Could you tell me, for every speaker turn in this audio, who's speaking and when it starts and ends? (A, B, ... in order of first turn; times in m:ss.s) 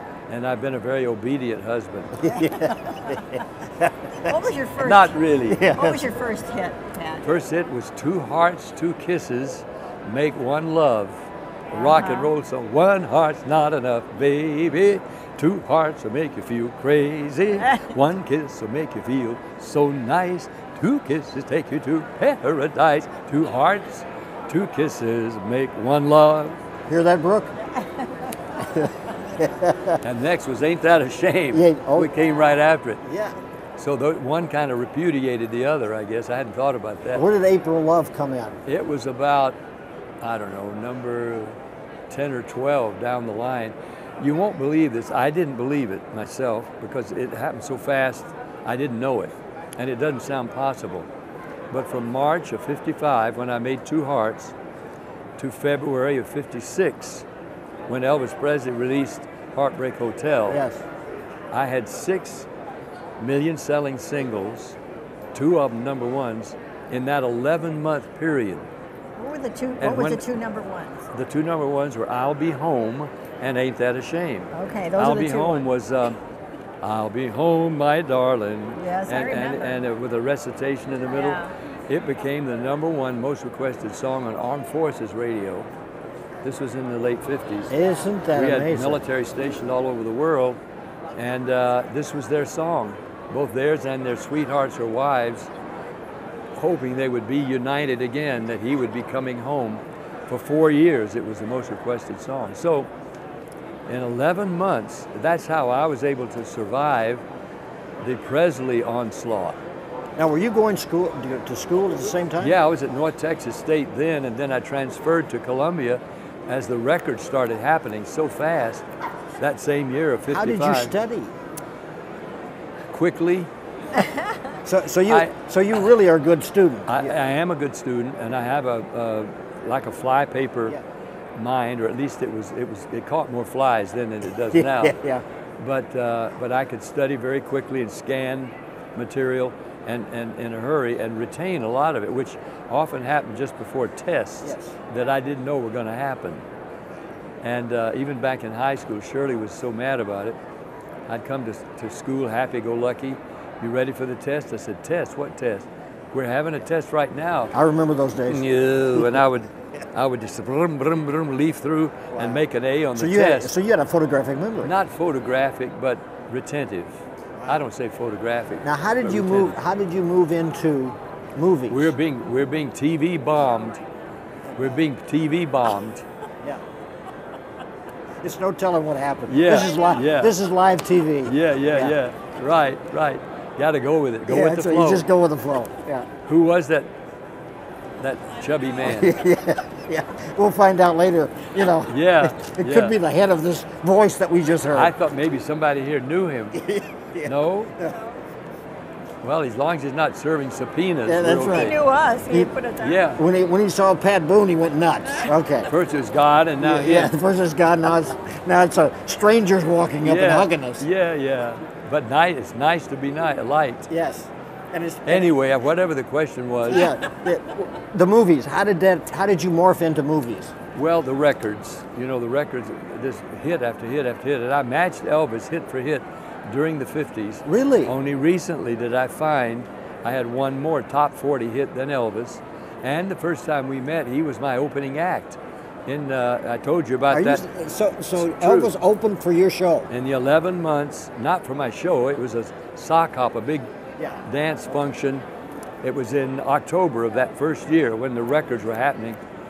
0:00.3-0:02.2 A
0:02.2-0:04.3 B
0:02.3-0:02.7 C
0:04.2-0:07.2 C
0:04.8-0:05.7 A
0:05.5-0:06.0 B
0:07.2-0:26.6 A
0:11.7-0:12.3 C
0:26.9-0:27.5 B
0:28.8-0:30.0 B
0:30.0-0:33.0 A
0:31.5-0:32.1 B
0:33.0-0:33.4 B
0:33.8-0:37.3 A
0:37.1-0:38.6 B
0:38.6-0:39.6 A
0:40.2-0:41.6 A
0:42.1-0:51.1 A
0:51.7-0:54.5 A
0:55.4-0:57.2 A
0:57.9-1:00.6 A
1:00.5-1:00.8 B
1:01.5-1:02.5 A
1:03.2-1:04.8 A
1:05.3-1:08.7 A
1:09.2-1:11.0 C
1:09.8-1:10.2 A
1:11.1-1:16.2 A
1:14.5-1:15.7 C
1:16.8-1:25.7 A
1:18.8-1:19.8 C
1:21.1-1:21.5 C
1:26.4-1:27.7 A
1:27.7-1:29.0 B
1:28.3-1:30.6 A
1:31.2-1:35.5 A
1:36.6-1:42.9 A
1:43.9-1:47.2 A
1:48.0-1:49.6 A
1:50.2-1:52.6 B
1:52.4-1:58.8 A
1:59.4-2:00.9 A
2:00.3-2:01.3 B
2:02.9-2:03.5 A
2:04.6-2:07.1 B
2:05.1-2:05.3 A
2:06.9-2:10.8 A
2:11.4-2:15.0 A
2:14.5-2:15.2 B
2:15.6-2:26.4 A
2:24.4-2:24.7 B
2:27.4-2:30.4 A
2:31.1-2:37.5 A
2:37.5-2:39.1 B
2:38.3-2:43.5 A
2:42.1-2:42.4 B
2:42.9-2:44.7 B
2:44.6-2:49.6 A
2:48.6-2:51.9 B
2:51.7-2:53.8 A
2:54.5-2:54.8 B
2:54.6-2:56.0 A
2:58.2-3:02.0 B
2:59.3-3:00.3 A
3:01.2-3:05.1 A
3:04.3-3:06.1 B
3:06.2-3:06.9 A
3:08.0-3:09.2 A
3:08.8-3:14.9 B
3:11.9-3:13.0 A
3:14.7-3:16.7 A
3:16.6-3:17.9 B
3:17.2-3:17.7 A
3:19.2-3:21.8 A
3:21.0-3:21.7 B
3:21.5-3:23.1 C
3:22.8-3:23.2 A
3:23.2-3:25.7 B
3:25.7-3:27.1 A
3:26.6-3:30.8 B
3:30.0-3:33.9 A
3:33.9-3:35.3 B
3:35.0-3:36.9 A
3:36.7-3:40.5 B
3:40.7-3:57.4 A
3:47.4-3:47.9 B
3:57.1-3:59.9 B
3:58.2-3:58.7 A
3:59.9-4:03.7 A
4:04.2-4:05.2 A
4:05.8-4:09.2 A